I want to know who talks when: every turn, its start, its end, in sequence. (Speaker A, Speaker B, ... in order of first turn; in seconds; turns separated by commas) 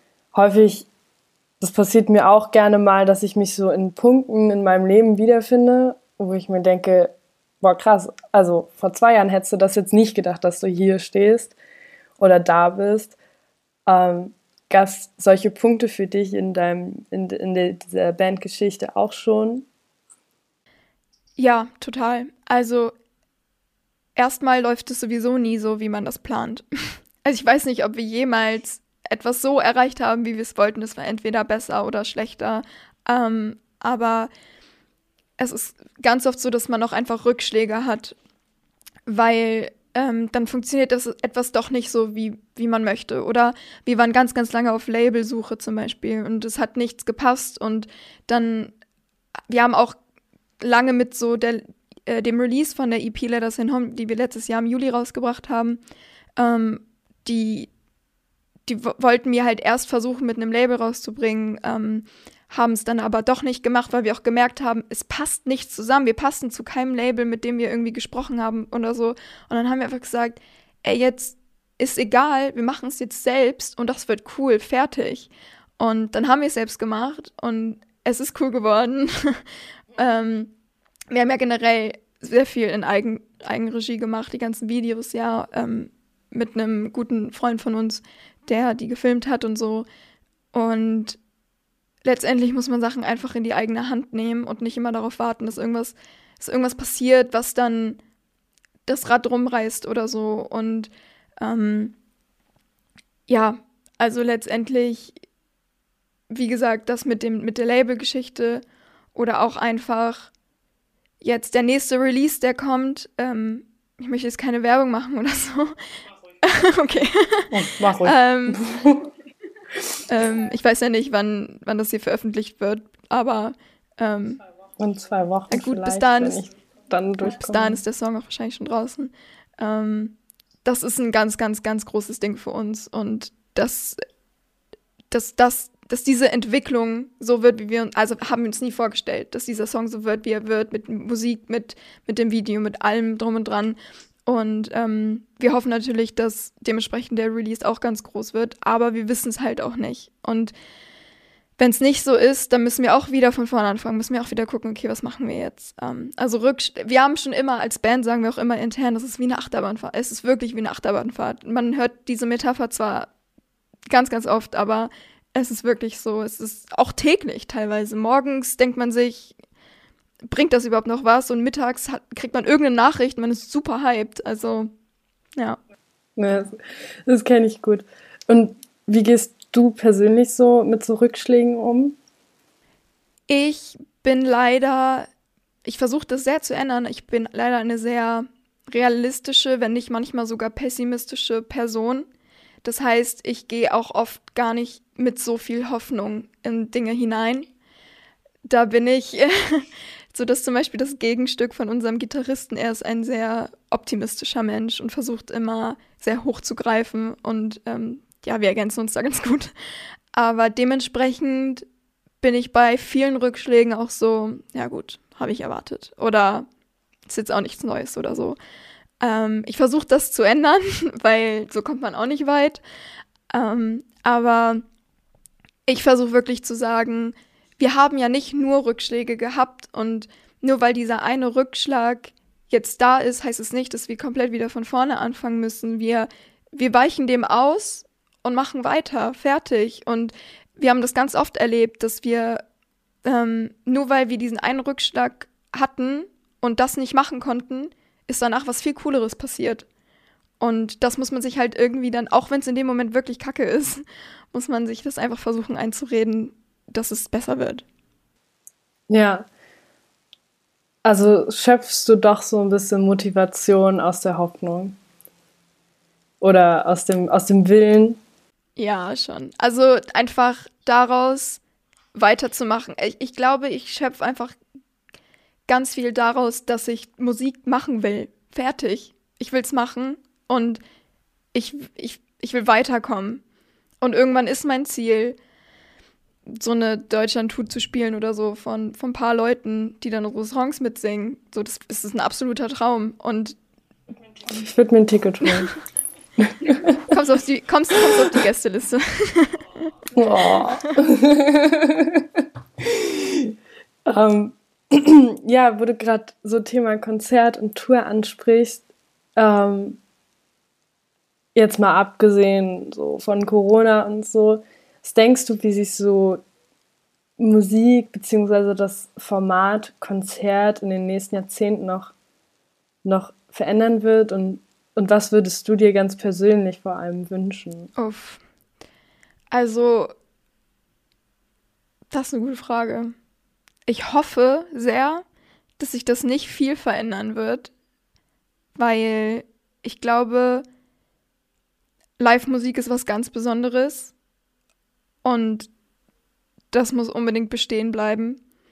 Speaker A: 0.3-0.9, Speaker A: 1.6-11.6, Speaker A: 12.2-13.2, Speaker A: 13.9-19.7, Speaker B: 21.4-22.9, Speaker B: 24.1-34.3, Speaker B: 35.4-38.1, Speaker B: 39.0-48.7, Speaker B: 49.5-50.0, Speaker B: 50.6-55.8, Speaker B: 56.4-57.7, Speaker B: 58.6-79.4, Speaker B: 80.0-80.5, Speaker B: 81.1-89.8, Speaker B: 90.5-91.2, Speaker B: 92.0-98.0, Speaker B: 98.8-100.9, Speaker B: 101.4-101.9, Speaker B: 103.3-105.2, Speaker B: 106.3-108.6, Speaker B: 109.1-110.3, Speaker B: 111.2-115.8, Speaker B: 116.4-118.6, Speaker A: 117.5-119.0, Speaker B: 120.1-124.4, Speaker A: 124.8-127.8, Speaker B: 125.5-126.4, Speaker B: 127.2-134.0, Speaker B: 135.1-150.5, Speaker B: 151.6-163.1, Speaker B: 163.9-169.3, Speaker B: 170.3-174.7, Speaker A: 176.2-182.0, Speaker B: 183.3-185.1, Speaker B: 185.6-192.1, Speaker B: 192.6-197.5, Speaker B: 198.4-209.5, Speaker B: 210.1-211.7, Speaker B: 212.2-216.5, Speaker B: 217.1-218.4, Speaker B: 219.0-222.6, Speaker B: 223.3-224.6, Speaker B: 225.7-242.4, Speaker B: 243.0-249.7, Speaker B: 250.4-257.6, Speaker A: 258.9-259.3, Speaker A: 260.8-264.8, Speaker A: 266.2-268.0, Speaker B: 268.6-271.4, Speaker B: 271.9-274.4, Speaker B: 275.5-280.6, Speaker B: 281.3-283.2, Speaker B: 283.8-285.2, Speaker B: 286.3-293.4, Speaker A: 294.3-295.5, Speaker A: 296.2-296.8, Speaker B: 296.9-299.7, Speaker A: 299.9-303.3, Speaker A: 303.9-308.6, Speaker A: 309.1-309.8, Speaker A: 311.3-316.2, Speaker A: 317.2-321.9, Speaker A: 322.8-327.7, Speaker B: 327.8-328.2, Speaker B: 329.3-329.9, Speaker B: 331.9-332.9, Speaker B: 333.6-335.0, Speaker B: 335.6-337.5, Speaker B: 338.6-340.4, Speaker B: 342.0-343.9, Speaker B: 345.0-345.5, Speaker B: 346.5-348.2